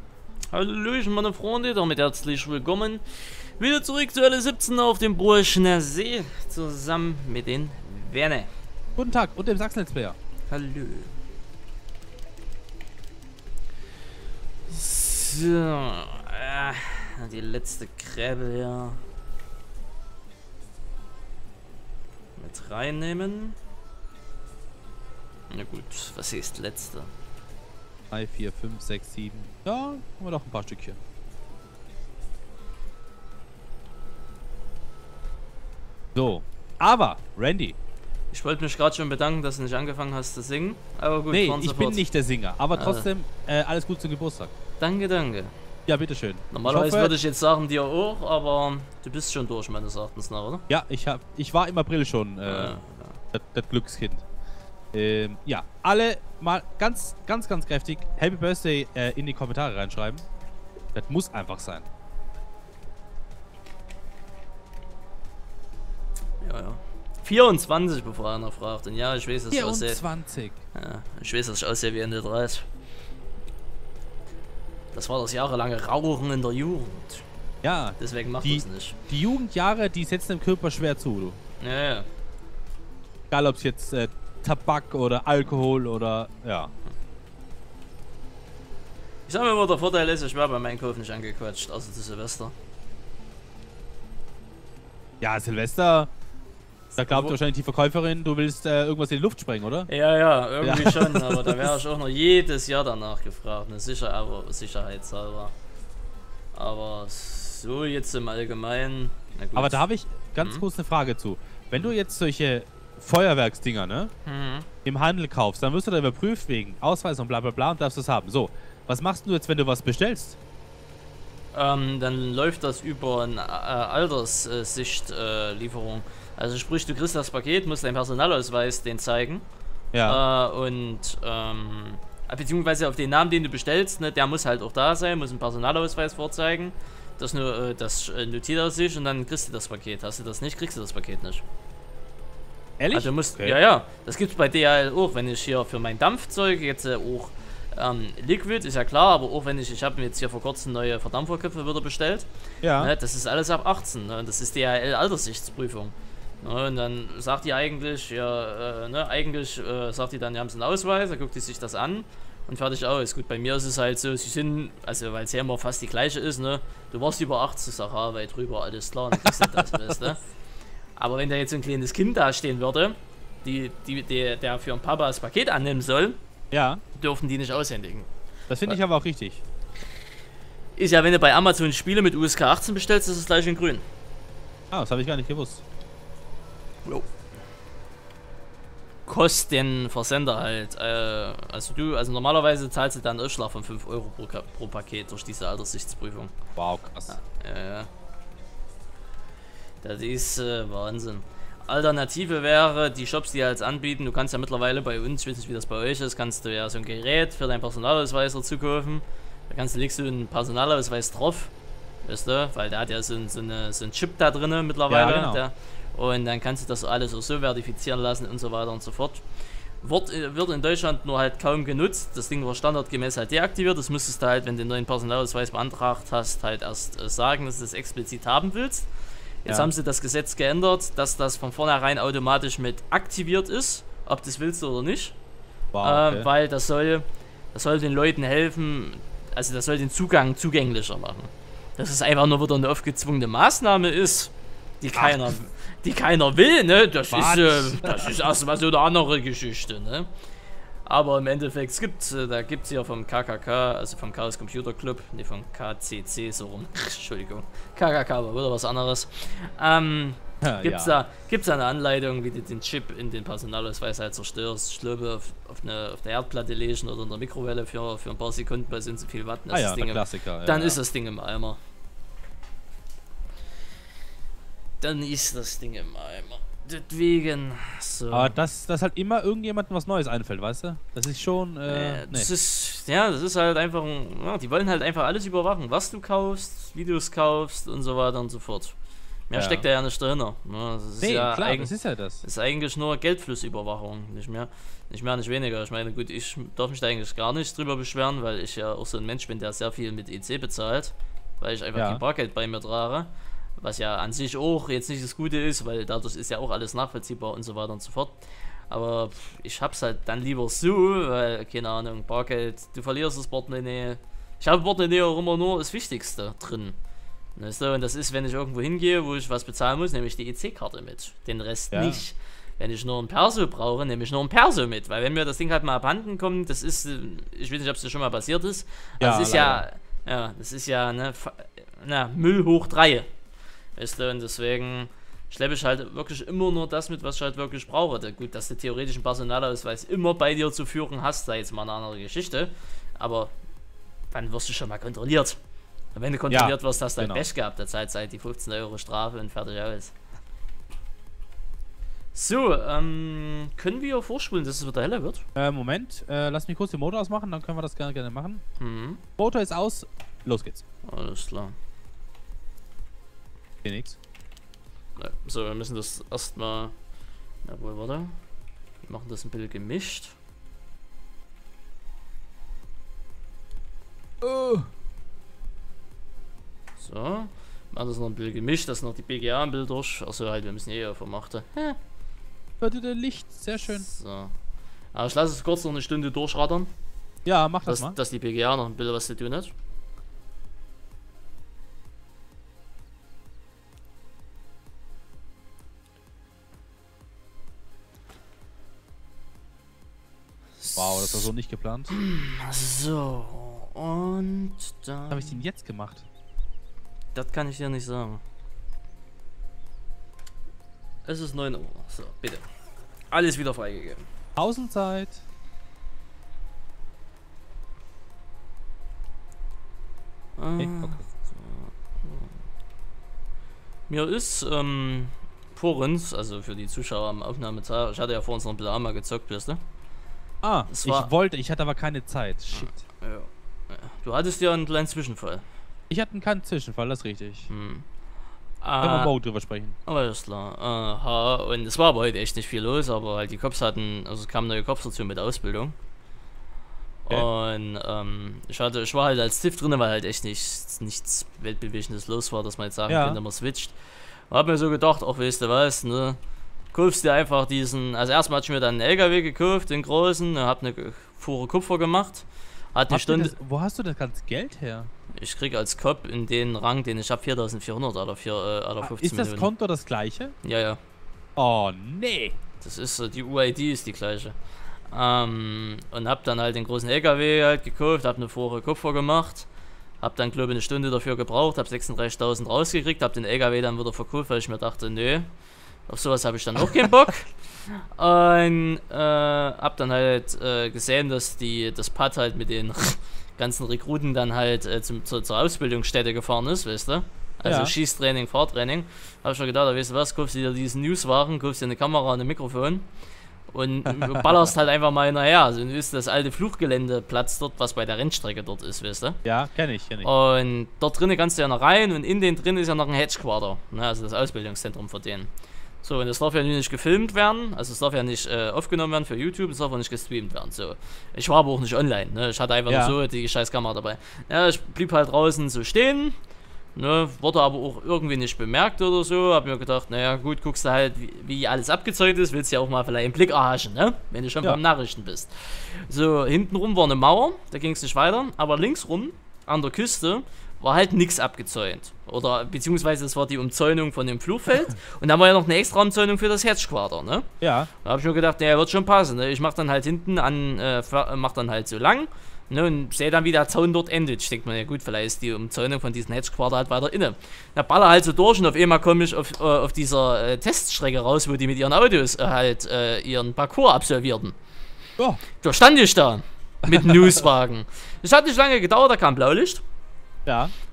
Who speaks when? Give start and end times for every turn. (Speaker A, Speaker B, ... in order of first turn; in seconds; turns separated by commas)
Speaker A: 0.5-8.5, Speaker B: 8.9-10.2, Speaker A: 10.5-11.1, Speaker A: 14.7-19.0, Speaker A: 22.4-23.6, Speaker A: 25.5-27.1, Speaker B: 28.1-31.0, Speaker B: 36.1-37.7, Speaker A: 38.3-42.0, Speaker B: 41.3-44.5, Speaker A: 42.7-43.1, Speaker A: 44.8-45.5, Speaker B: 45.9-47.1, Speaker A: 46.5-50.6, Speaker B: 50.7-52.8, Speaker A: 52.5-53.2, Speaker B: 53.3-54.2, Speaker B: 54.9-60.2, Speaker B: 60.9-61.9, Speaker A: 66.4-70.0, Speaker B: 69.5-70.6, Speaker A: 70.7-72.6, Speaker A: 74.9-77.2, Speaker B: 77.6-81.4, Speaker A: 78.0-79.0, Speaker A: 81.6-82.0, Speaker B: 83.3-86.7, Speaker A: 89.3-92.5, Speaker B: 95.2-96.1, Speaker A: 96.9-97.4, Speaker B: 97.0-99.9, Speaker A: 99.9-105.5, Speaker B: 100.6-101.7, Speaker A: 106.5-109.8, Speaker B: 109.5-114.1, Speaker A: 114.2-114.7, Speaker B: 114.8-120.4, Speaker A: 121.5-129.4, Speaker B: 129.9-130.2, Speaker A: 130.0-141.4, Speaker B: 142.8-143.6, Speaker A: 142.9-170.2, Speaker B: 152.6-152.9, Speaker B: 169.2-170.1, Speaker A: 171.0-176.2, Speaker B: 176.5-176.8, Speaker A: 176.9-178.1, Speaker B: 178.5-179.4, Speaker A: 180.8-183.8, Speaker B: 184.7-185.6, Speaker A: 189.1-196.3, Speaker B: 196.6-197.1, Speaker A: 197.1-197.9, Speaker A: 199.8-211.5, Speaker A: 212.0-219.2, Speaker B: 214.9-215.4, Speaker A: 219.8-228.9, Speaker A: 229.4-235.1, Speaker B: 235.7-236.3, Speaker A: 235.8-250.1, Speaker B: 244.9-245.3, Speaker B: 247.1-248.2, Speaker A: 250.8-271.6, Speaker B: 260.4-261.0, Speaker B: 269.5-270.8, Speaker A: 274.8-278.4, Speaker B: 278.1-282.3, Speaker A: 281.7-288.7, Speaker A: 289.3-316.8, Speaker B: 289.3-289.6, Speaker B: 291.0-292.2, Speaker B: 301.7-302.0, Speaker A: 317.4-333.1, Speaker B: 321.7-322.0, Speaker B: 329.0-329.6, Speaker A: 333.8-343.3, Speaker A: 344.1-345.4, Speaker A: 345.9-349.9, Speaker B: 346.3-347.2, Speaker A: 352.1-355.2, Speaker B: 355.4-358.4, Speaker A: 358.6-359.0, Speaker B: 359.2-360.6, Speaker A: 360.9-361.5, Speaker B: 363.6-364.0, Speaker A: 365.0-366.7, Speaker A: 367.4-368.1, Speaker A: 368.8-370.1, Speaker B: 374.2-374.7, Speaker A: 376.8-381.8, Speaker B: 382.6-383.9, Speaker A: 383.7-384.3, Speaker A: 384.9-386.7, Speaker B: 387.2-388.0, Speaker A: 387.6-389.5, Speaker A: 400.6-401.3, Speaker B: 400.8-401.9, Speaker A: 401.9-405.4, Speaker B: 405.1-406.1, Speaker A: 407.1-408.2, Speaker A: 411.0-412.4, Speaker A: 413.1-414.0, Speaker B: 414.4-415.2, Speaker A: 420.4-422.3, Speaker B: 420.6-421.0, Speaker A: 423.9-429.6, Speaker B: 430.4-432.8, Speaker A: 430.7-431.1, Speaker A: 432.5-435.4, Speaker B: 435.9-437.5, Speaker A: 437.5-437.8, Speaker A: 438.6-439.1, Speaker B: 438.8-439.8, Speaker A: 439.9-445.7, Speaker A: 447.1-453.8, Speaker B: 452.9-453.2, Speaker A: 454.3-456.2, Speaker A: 456.7-463.3, Speaker B: 462.9-464.9, Speaker A: 465.1-469.5, Speaker B: 468.8-470.3, Speaker A: 470.4-470.8, Speaker B: 471.4-472.4, Speaker A: 472.6-474.3, Speaker A: 474.9-479.5, Speaker A: 480.0-485.3, Speaker A: 485.9-502.9, Speaker B: 497.4-497.7, Speaker A: 503.5-509.2, Speaker B: 503.9-504.3, Speaker B: 509.2-510.1, Speaker A: 510.0-515.3, Speaker A: 515.8-526.1, Speaker B: 522.7-523.0, Speaker A: 526.7-547.3, Speaker B: 547.4-547.7, Speaker A: 547.8-564.3, Speaker A: 565.4-569.6, Speaker B: 566.6-567.2, Speaker B: 570.2-570.5